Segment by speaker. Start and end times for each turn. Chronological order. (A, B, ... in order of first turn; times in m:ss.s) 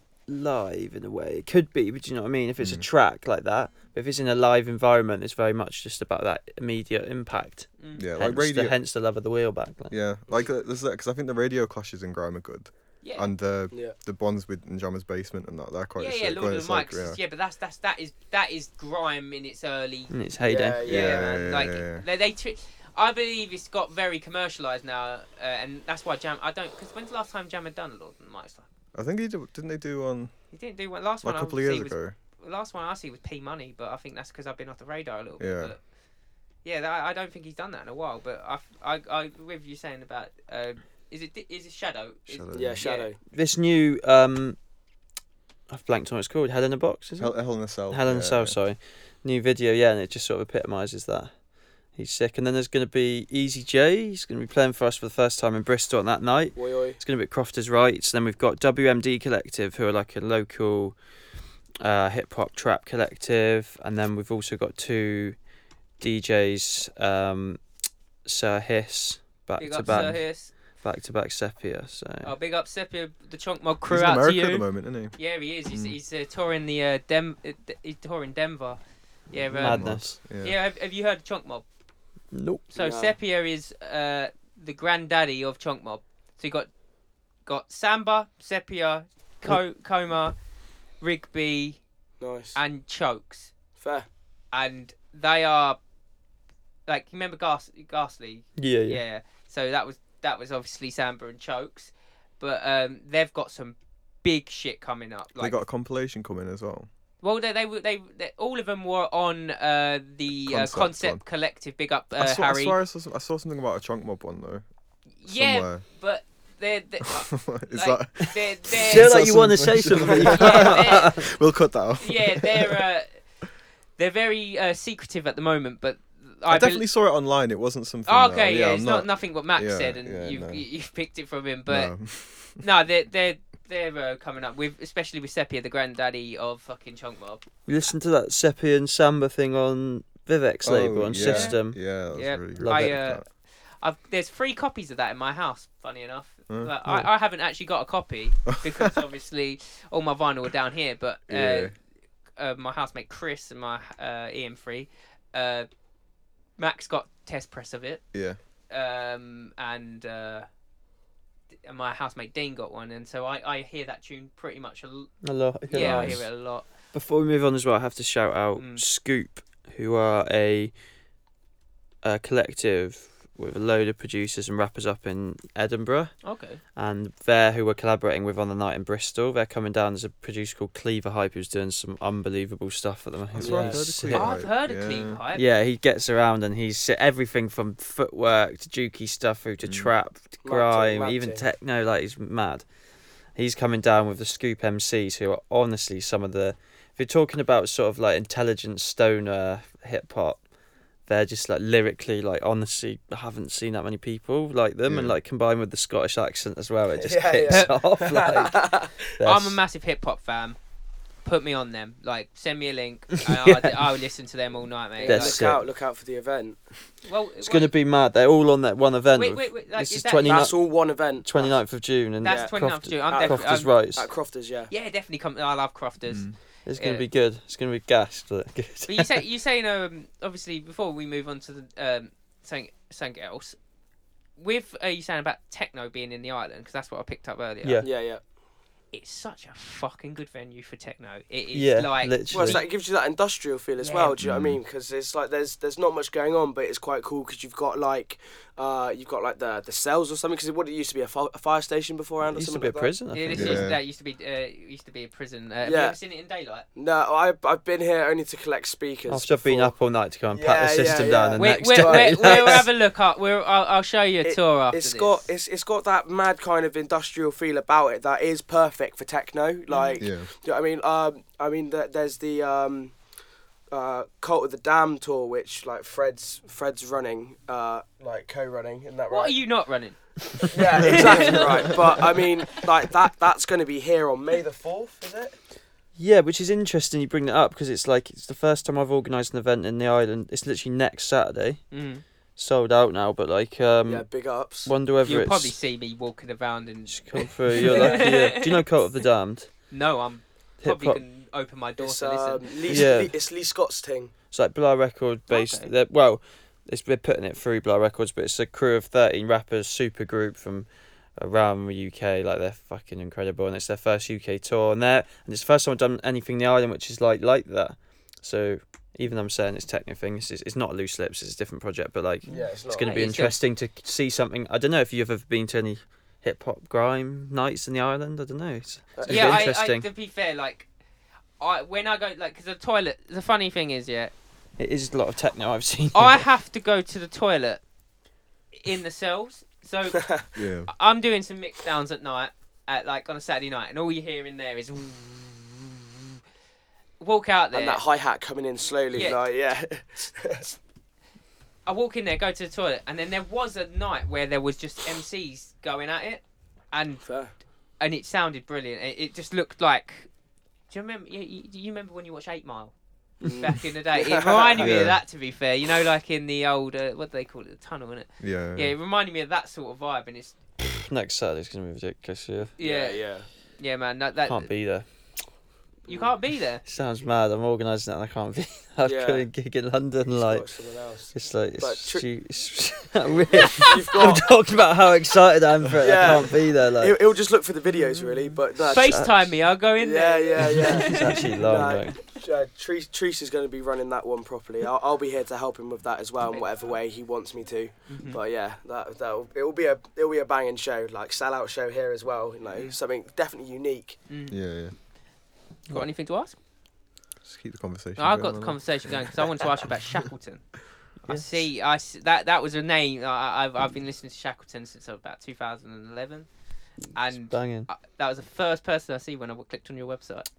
0:00.3-0:10.0 A
0:02.6-0:02.9 B
0:07.8-0:08.0 C
0:08.0-0:08.8 B
0:09.9-0:17.2 B
0:13.0-0:13.3 C
0:16.0-0:20.1 C
0:20.1-0:20.8 A
0:20.5-0:21.3 D
0:20.8-0:28.7 C
0:20.9-0:22.0 B
0:28.9-0:30.3 B
0:30.5-0:35.8 C
0:31.2-0:32.2 B
0:35.4-0:35.7 B
0:36.6-0:43.1 C
0:42.3-0:42.8 B
0:42.5-0:43.2 D
0:43.3-0:44.6 A
0:45.7-0:47.3 A
0:47.2-0:48.6 B
0:47.9-0:51.3 A
0:52.0-1:01.0 A
0:56.6-0:57.0 D
1:01.8-1:05.4 A
1:06.0-1:07.6 A
1:08.2-1:12.3 A
1:09.6-1:10.5 C
1:09.9-1:10.2 B
1:12.2-1:14.6 C
1:13.9-1:15.2 B
1:15.2-1:21.7 C
1:15.7-1:16.0 B
1:19.5-1:20.6 B
1:19.6-1:20.2 A
1:22.3-1:22.6 A
1:22.7-1:26.7 C
1:22.8-1:23.2 D
1:27.5-1:30.4 C
1:31.0-1:31.8 C
1:32.2-1:32.6 D
1:32.6-1:33.5 C
1:33.8-1:34.1 D
1:34.5-1:35.8 C
1:36.9-1:45.6 C
1:38.6-1:39.0 A
1:45.4-1:46.9 B
1:47.2-1:52.8 C
1:50.5-1:51.2 B
1:52.2-1:54.6 B
1:55.2-1:59.2 C
1:55.3-1:55.8 B
1:57.1-2:02.8 B
1:58.8-2:01.3 A
2:00.0-2:01.1 C
2:02.0-2:03.1 C
2:04.0-2:06.8 C
2:06.5-2:10.6 B
2:08.1-2:11.9 C
2:11.7-2:12.6 B
2:12.6-2:17.4 C
2:17.7-2:21.8 A
2:20.6-2:23.2 B
2:21.2-2:21.6 C
2:22.1-2:31.7 C
2:22.6-2:23.0 A
2:28.5-2:28.9 B
2:31.3-2:31.8 B
2:32.4-2:35.7 C
2:36.6-2:38.0 C
2:38.1-2:38.4 B
2:38.7-2:40.5 C
2:41.6-2:45.1 C
2:45.2-2:46.3 A
2:45.7-2:46.7 C
2:45.8-2:46.2 B
2:46.9-2:50.7 A
2:48.6-2:48.8 C
2:52.0-2:56.2 A
2:56.2-2:56.6 C
2:56.8-3:04.4 A
3:03.3-3:05.2 B
3:03.4-3:03.8 D
3:04.1-3:05.4 C
3:05.3-3:12.6 A
3:09.6-3:09.9 B
3:10.4-3:11.4 D
3:13.4-3:20.4 A
3:21.1-3:29.6 A
3:24.9-3:25.2 B
3:27.0-3:29.0 D
3:27.5-3:27.7 C
3:29.2-3:30.6 C
3:31.2-3:35.4 C
3:33.4-3:33.7 A
3:35.0-3:36.6 D
3:35.0-3:35.7 A
3:37.0-3:37.7 C
3:37.4-3:44.1 A
3:39.1-3:40.5 C
3:40.2-3:41.6 D
3:42.2-3:43.7 C
3:42.2-3:42.5 D
3:43.1-3:44.7 D
3:44.7-3:47.0 C
3:46.1-3:46.4 B
3:46.7-3:49.2 A
3:48.9-3:53.6 C
3:54.4-3:57.9 C
3:57.6-3:57.9 A
3:57.8-3:58.2 D
3:58.9-4:02.7 C
4:01.5-4:02.6 A
4:02.3-4:12.9 D
4:03.8-4:04.2 C
4:04.2-4:04.6 B
4:12.2-4:13.6 A
4:13.1-4:16.6 C
4:13.3-4:13.8 B
4:15.6-4:16.0 D
4:16.8-4:19.8 D
4:19.1-4:22.7 A
4:20.3-4:22.6 D
4:21.4-4:25.2 C
4:24.2-4:33.0 D
4:29.7-4:30.0 C
4:30.0-4:30.3 B
4:33.7-4:39.4 D
4:39.1-4:42.0 C
4:40.4-4:45.4 D
4:46.0-4:51.7 A
4:51.7-4:52.0 C
4:52.4-4:55.6 A
4:53.9-4:54.7 D
4:55.0-4:58.7 C
4:56.9-4:59.5 A
4:57.5-4:58.1 D
4:59.7-5:02.8 C
5:00.6-5:01.0 A
5:01.8-5:04.1 D
5:02.7-5:03.1 A
5:04.3-5:29.9 A
5:05.3-5:05.7 C
5:22.3-5:23.0 D
5:22.7-5:23.4 C
5:29.0-5:29.5 D
5:29.0-5:30.7 C
5:31.4-5:34.1 C
5:34.6-5:36.2 A
5:35.9-5:37.6 C
5:38.6-5:45.8 C
5:40.0-5:40.3 D
5:40.4-5:40.7 B
5:47.0-5:47.8 C
5:47.5-5:50.6 D
5:48.9-5:49.2 C
5:51.7-5:57.0 C
5:57.0-5:57.3 D
5:57.8-6:00.1 C
6:00.7-6:10.4 C
6:03.2-6:04.8 D
6:04.6-6:05.0 B
6:08.2-6:08.8 B
6:10.9-6:12.5 A
6:12.6-6:14.5 C
6:12.6-6:13.3 D
6:14.3-6:15.3 A
6:15.8-6:16.6 C
6:16.6-6:20.5 A
6:18.8-6:19.2 D
6:20.2-6:22.0 D
6:21.1-6:27.0 A
6:23.3-6:24.3 D
6:25.8-6:29.0 D
6:28.6-6:29.3 A
6:28.6-6:31.3 C
6:29.8-6:44.0 D
6:30.4-6:32.0 A
6:37.9-6:38.2 C
6:44.1-6:44.4 C
6:44.3-6:44.8 B
6:45.7-6:46.4 C
6:47.2-6:49.1 B
6:48.0-6:50.5 C
6:51.0-6:56.3 C
6:51.0-6:51.4 A
6:56.9-7:00.3 C
6:57.2-6:57.7 A